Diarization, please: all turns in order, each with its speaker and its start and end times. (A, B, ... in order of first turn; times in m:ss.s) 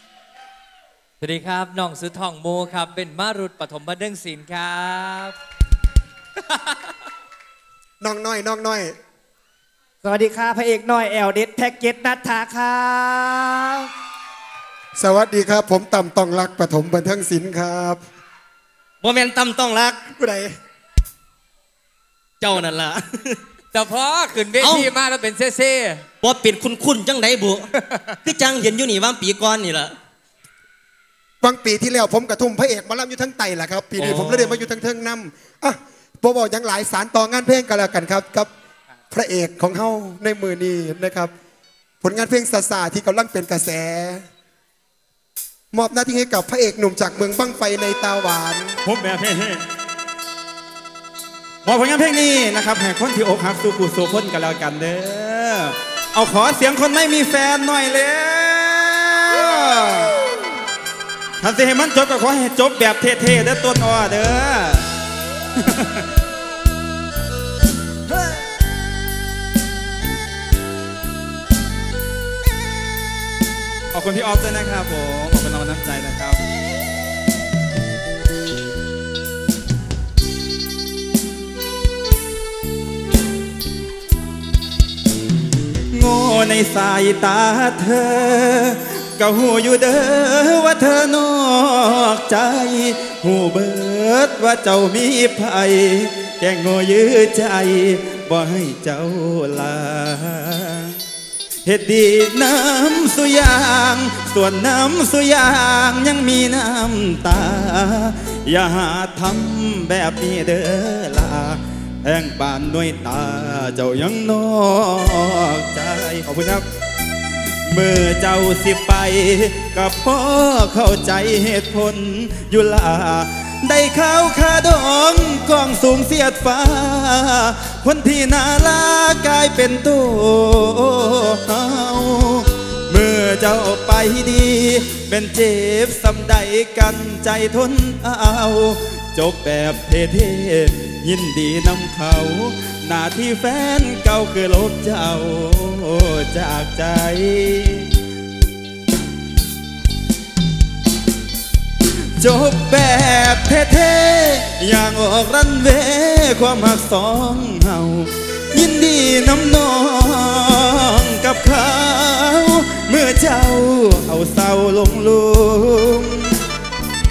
0:01.2-0:05.3 A
0:08.0-0:08.9 B
0:10.0-0:13.9 C
0:14.9-0:18.0 B
0:19.0-0:20.0 D
0:20.2-0:20.5 B
0:22.4-0:23.4 D
0:23.7-0:26.0 A
0:24.6-0:24.9 D
0:26.2-0:27.7 D
0:27.8-0:28.1 A
0:28.2-0:29.9 D
0:31.4-0:38.5 B
0:34.0-0:34.5 D
0:39.1-0:41.3 B
0:42.0-0:44.2 B
0:45.7-0:48.8 B
0:48.8-0:49.6 E
0:51.6-1:00.2 E
1:01.4-1:04.8 E
1:05.6-1:06.0 E
1:13.9-1:16.4 E
1:25.9-1:40.9 E
1:41.6-1:56.6 E
1:57.7-2:27.8 E
2:32.2-2:46.3 E